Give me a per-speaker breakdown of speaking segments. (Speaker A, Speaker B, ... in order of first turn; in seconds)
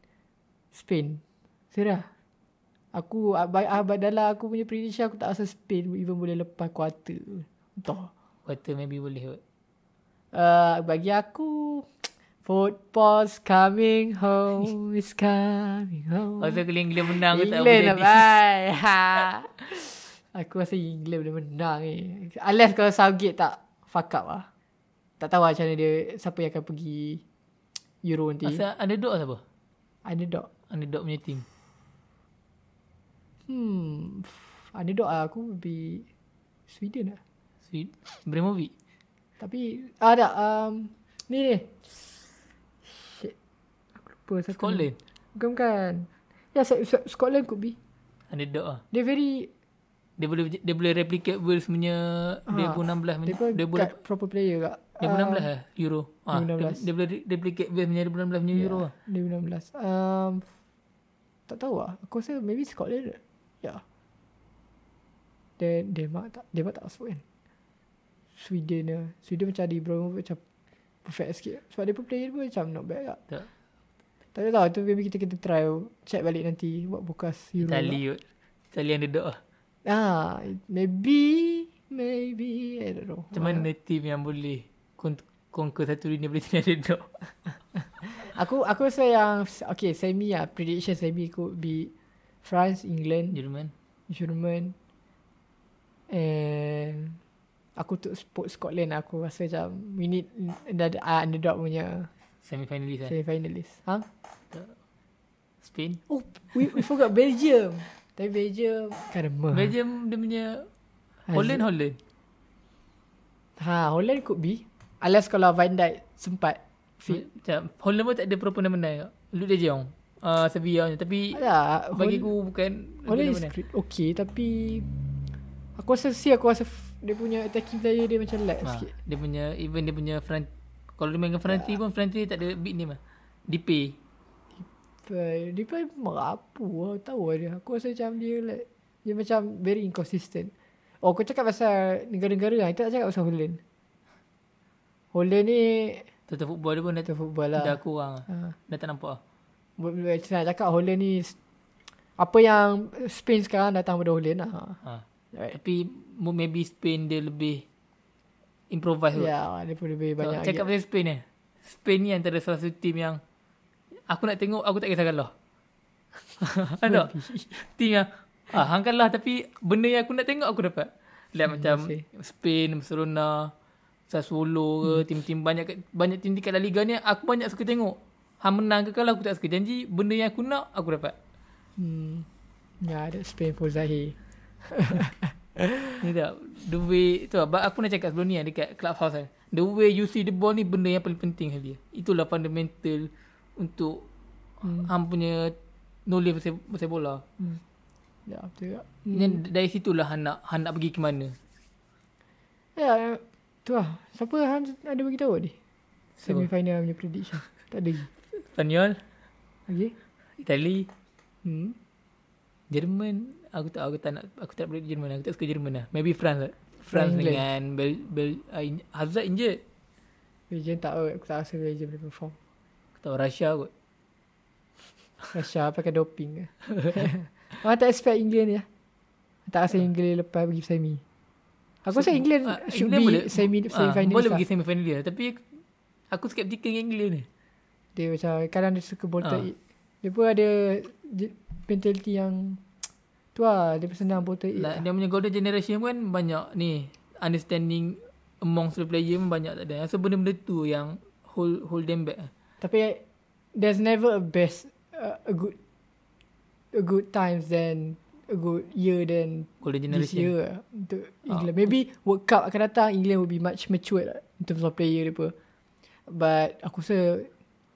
Speaker A: 0.7-1.2, 1.7-2.1, 2.9-8.1, 10.3-24.5, 25.2-27.2, 28.0-28.6, 30.0-30.5, 33.5-36.0, 36.7-37.2, 39.4-42.2, 42.8-43.3, 44.0-47.8, 48.9-49.5, 52.5-55.5, 56.3-56.8, 58.5-60.5, 61.5-63.8, 65.6-67.2, 68.4-70.4, 71.0-73.2, 74.3-78.0, 79.8-83.7, 88.0-91.9, 92.4-93.4, 94.1-94.7, 96.1-97.2, 97.8-102.1, 103.1-104.1, 106.1-109.7, 111.3-111.6, 113.6-117.2, 121.3-122.3, 123.1-124.9, 125.8-128.9, 131.5-131.8, 135.1-143.6, 145.1-146.1, 147.1-148.5, 149.8-151.3, 152.2-154.8, 159.1-160.7, 166.8-167.5, 171.5-172.0, 181.8-182.3, 182.8-186.0, 194.6-194.9, 198.3-199.4, 202.8-205.6, 206.2-208.1, 209.7-209.9, 211.4-211.8, 216.9-217.4, 220.5-222.3, 225.3-228.7, 229.5-231.0, 231.8-234.4, 237.9-242.6, 243.3-244.8, 252.6-253.0, 253.5-255.5, 256.7-265.3, 266.1-267.3
Speaker B: 8.4-9.4, 16.4-18.4, 28.4-29.4, 30.7-31.4, 37.7-38.7, 44.5-45.0, 48.3-48.8, 50.2-53.9, 55.0-58.9, 77.6-79.4, 83.3-87.1, 93.3-93.7, 102.4-103.1, 105.6-106.0, 109.5-110.7, 111.3-112.0, 117.1-121.4, 121.9-123.5, 128.6-133.9, 146.3-149.2, 154.8-157.6, 158.7-159.3, 160.2-163.2, 164.1-165.3, 166.4-173.5, 174.1-181.2, 186.0-194.1, 194.6-195.6, 196.1-197.2, 199.1-201.3, 206.2-206.4, 208.3-209.0, 210.4-210.9, 212.7-219.6, 223.0-223.7, 231.9-235.4, 236.1-237.3, 244.6-252.3, 259.6-260.3